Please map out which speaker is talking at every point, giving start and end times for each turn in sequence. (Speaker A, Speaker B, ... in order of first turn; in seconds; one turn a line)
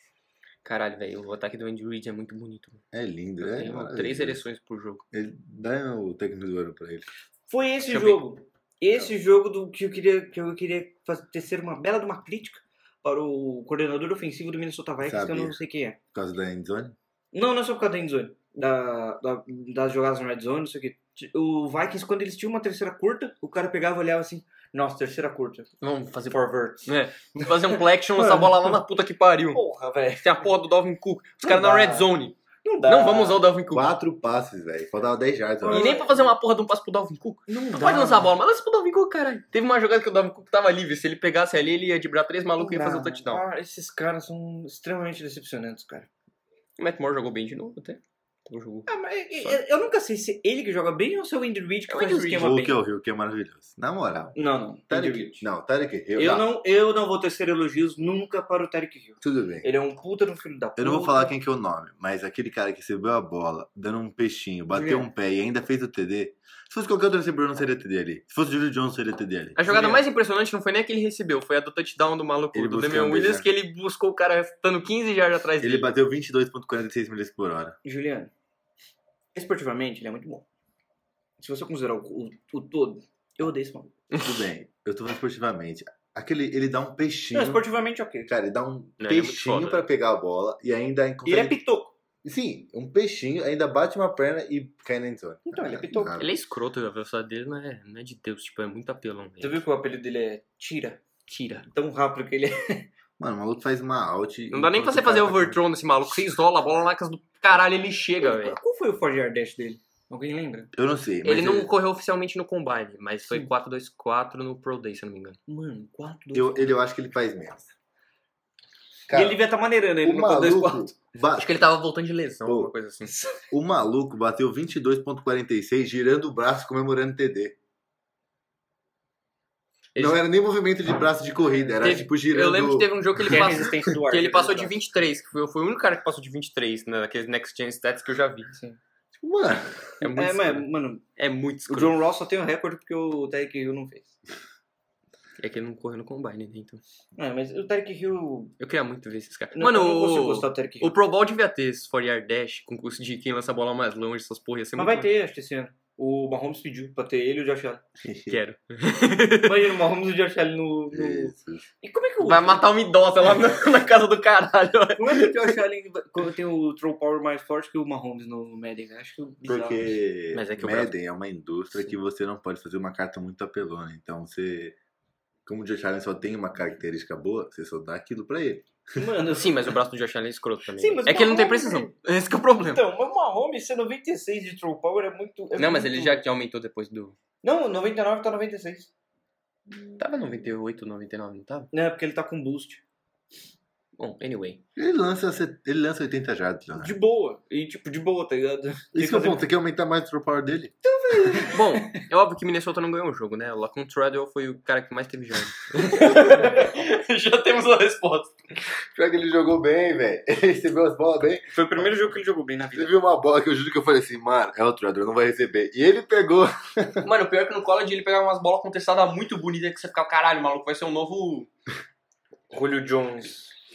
Speaker A: 0.6-2.8
Speaker B: 2.9-4.4
Speaker A: 3.4-5.0
Speaker B: 5.1-7.1
Speaker C: 7.5-16.0
Speaker A: 7.9-8.2
Speaker B: 15.0-15.6
Speaker B: 16.1-17.0
Speaker C: 17.3-25.7
Speaker A: 25.8-29.6
Speaker C: 26.3-28.8
Speaker C: 29.5-30.5
Speaker A: 30.2-33.9
Speaker C: 31.4-32.1
Speaker C: 32.6-33.5
Speaker B: 33.7-35.9
Speaker C: 35.6-36.4
Speaker A: 35.7-43.5
Speaker C: 37.5-38.3
Speaker C: 42.6-46.1
Speaker A: 46.8-49.6
Speaker C: 48.9-52.8
Speaker A: 51.9-52.5
Speaker B: 52.4-54.4
Speaker C: 54.4-55.5
Speaker B: 54.9-56.5
Speaker C: 56.2-61.3
Speaker B: 59.2-59.7
Speaker B: 60.8-69.6
Speaker C: 64.7-65.1
Speaker A: 69.6-75.9
Speaker C: 69.7-70.0
Speaker B: 72.5-73.5
Speaker B: 75.6-77.8
Speaker C: 77.8-78.3
Speaker C: 79.3-80.5
Speaker C: 81.4-83.9
Speaker B: 84.2-87.7
Speaker C: 87.3-88.3
Speaker B: 88.3-91.6
Speaker A: 89.0-89.8
Speaker C: 91.2-92.0
Speaker B: 92.2-96.3
Speaker C: 95.5-96.2
Speaker A: 96.2-99.6
Speaker C: 99.4-101.0
Speaker A: 101.3-101.7
Speaker C: 101.7-102.9
Speaker B: 103.2-105.6
Speaker A: 104.5-108.6
Speaker C: 108.2-110.7
Speaker B: 110.7-111.7
Speaker A: 111.2-115.4
Speaker C: 115.5-116.7
Speaker B: 116.3-117.7
Speaker B: 119.1-119.4
Speaker C: 119.1-120.9
Speaker B: 120.0-121.6
Speaker A: 121.2-123.1
Speaker B: 122.4-122.7
Speaker C: 123.1-123.4
Speaker B: 123.5-127.6
Speaker A: 129.9-130.2
Speaker B: 130.0-133.6
Speaker A: 131.8-138.5
Speaker C: 133.3-134.8
Speaker C: 138.5-138.8
Speaker B: 139.2-140.0
Speaker A: 140.0-142.0
Speaker C: 140.1-141.1
Speaker C: 141.7-144.1
Speaker A: 145.4-146.8
Speaker C: 147.2-148.6
Speaker A: 148.6-155.1
Speaker C: 149.5-151.0
Speaker C: 154.8-157.8
Speaker B: 158.0-158.4
Speaker A: 158.3-159.7
Speaker C: 159.4-162.7
Speaker B: 160.9-161.7
Speaker A: 162.2-165.3
Speaker C: 165.0-170.0
Speaker B: 169.4-174.8
Speaker A: 170.3-170.9
Speaker B: 175.5-179.1
Speaker C: 178.9-179.5
Speaker A: 179.3-182.8
Speaker C: 180.8-181.9
Speaker C: 182.7-186.2
Speaker A: 185.6-187.2
Speaker C: 187.4-188.9
Speaker A: 190.0-191.7
Speaker C: 191.7-192.8
Speaker A: 194.0-194.6
Speaker B: 194.8-197.0
Speaker C: 196.8-199.4
Speaker B: 198.9-201.5
Speaker C: 200.8-202.0
Speaker A: 201.5-208.4
Speaker B: 208.9-212.1
Speaker C: 211.5-212.9
Speaker B: 212.8-217.1
Speaker A: 217.0-221.5
Speaker C: 222.5-223.6